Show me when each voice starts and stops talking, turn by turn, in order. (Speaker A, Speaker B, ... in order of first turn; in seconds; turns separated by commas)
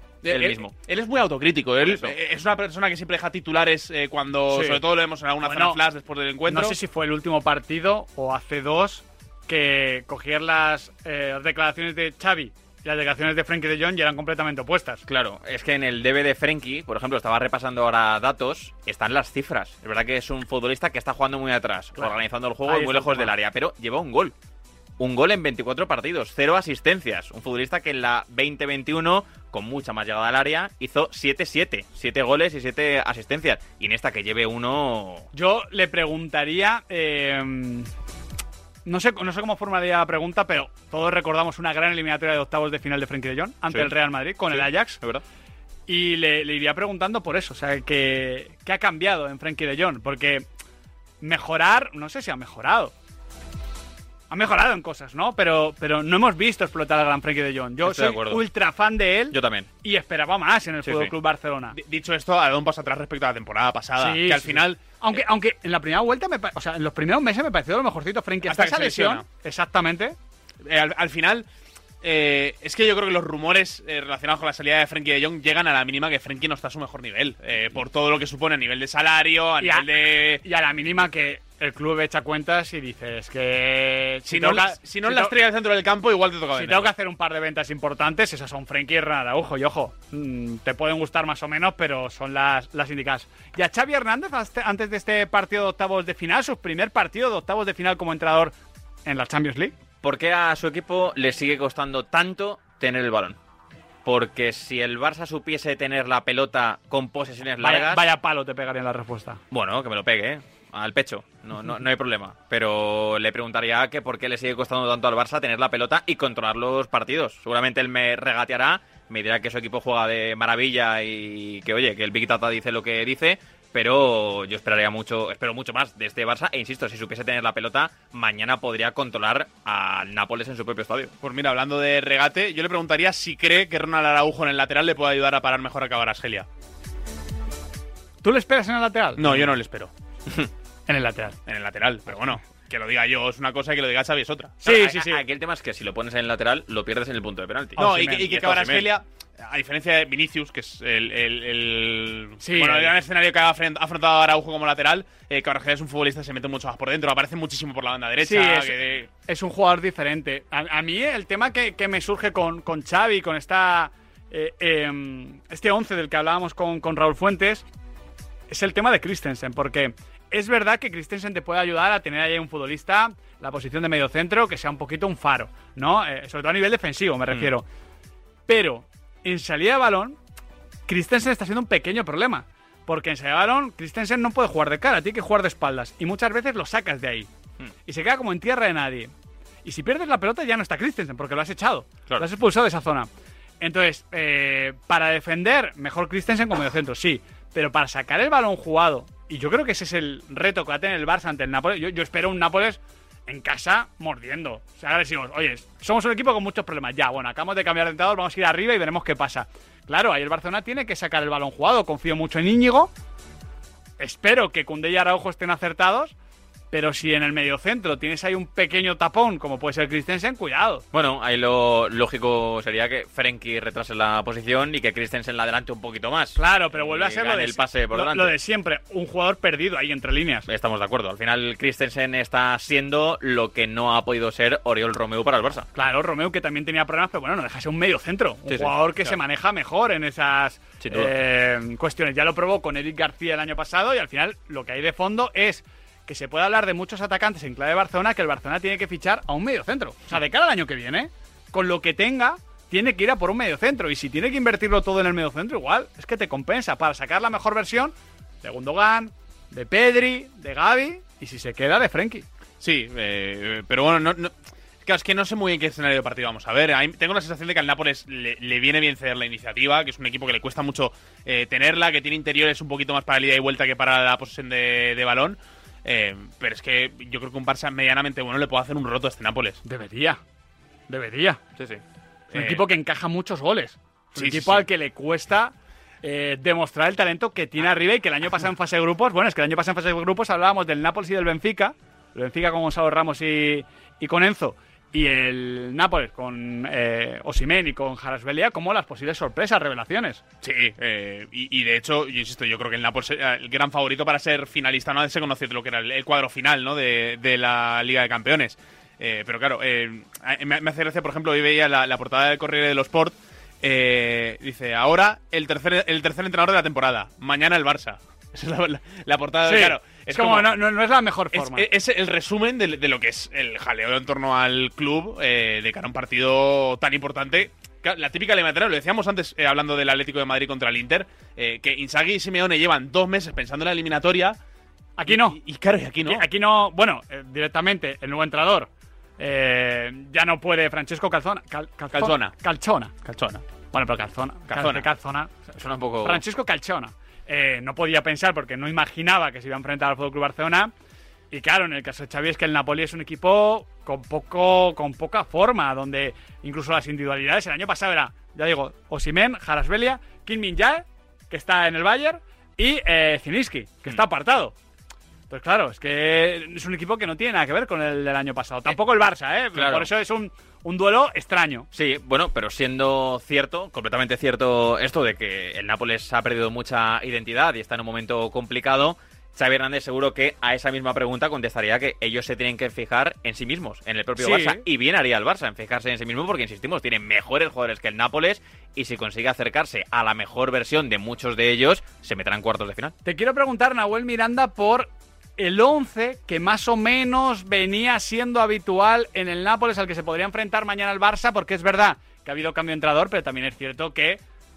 Speaker A: 0.2-6.8, Speaker B: 0.3-0.7, Speaker B: 1.8-2.1, Speaker C: 4.5-4.8, Speaker C: 5.4-5.8, Speaker C: 6.5-15.0, Speaker B: 15.1-24.3, Speaker C: 22.0-23.3, Speaker B: 25.0-35.3, Speaker C: 35.3-37.9, Speaker C: 38.9-45.0, Speaker B: 43.7-43.9, Speaker B: 44.5-45.2, Speaker C: 45.9-50.5, Speaker C: 51.2-52.9, Speaker C: 54.3-61.8, Speaker B: 57.8-58.4, Speaker B: 59.3-59.7, Speaker B: 60.8-61.1, Speaker A: 61.7-65.0, Speaker C: 64.0-70.2, Speaker A: 68.5-69.2, Speaker A: 70.7-71.5, Speaker A: 72.0-80.4, Speaker C: 79.6-79.9, Speaker C: 80.4-85.3, Speaker A: 84.3-86.9, Speaker C: 86.5-98.5, Speaker C: 99.1-99.7, Speaker B: 100.0-103.4, Speaker B: 104.0-108.0, Speaker C: 107.6-109.4, Speaker B: 109.5-131.1, Speaker A: 131.2-136.5, Speaker C: 138.2-139.5, Speaker A: 139.2-139.9, Speaker C: 140.9-141.4, Speaker A: 141.5-144.6, Speaker C: 144.6-145.2, Speaker B: 144.6-148.9, Speaker C: 147.8-148.3, Speaker A: 147.8-159.1, Speaker C: 152.4-152.9, Speaker C: 158.2-167.6, Speaker C: 168.5-177.7, Speaker C: 178.5-180.2, Speaker C: 180.9-187.3, Speaker C: 187.9-189.1, Speaker C: 189.6-193.1, Speaker C: 193.6-212.9, Speaker C: 214.0-216.1, Speaker C: 216.7-220.8, Speaker B: 220.9-228.3, Speaker C: 226.4-230.5, Speaker B: 230.5-235.7, Speaker C: 235.7-262.2, Speaker B: 238.5-239.2, Speaker B: 240.8-241.1, Speaker A: 262.6-264.3, Speaker A: 264.8-279.6, Speaker C: 279.6-280.2, Speaker C: 280.9-281.4, Speaker A: 282.3-282.6, Speaker C: 282.3-300.2, Speaker A: 284.1-284.7, Speaker A: 300.4-320.5, Speaker C: 319.4-321.7, Speaker A: 321.3-334.4, Speaker C: 335.0-335.4, Speaker A: 335.1-336.3, Speaker C: 336.1-343.0, Speaker A: 341.9-342.3, Speaker A: 343.1-343.4, Speaker C: 343.7-345.4, Speaker A: 344.5-344.9, Speaker B: 345.5-346.2, Speaker C: 346.0-350.7, Speaker C: 351.3-364.5, Speaker C: 365.3-371.7, Speaker B: 369.5-369.9, Speaker B: 371.7-392.9, Speaker C: 384.2-384.6, Speaker C: 393.1-404.2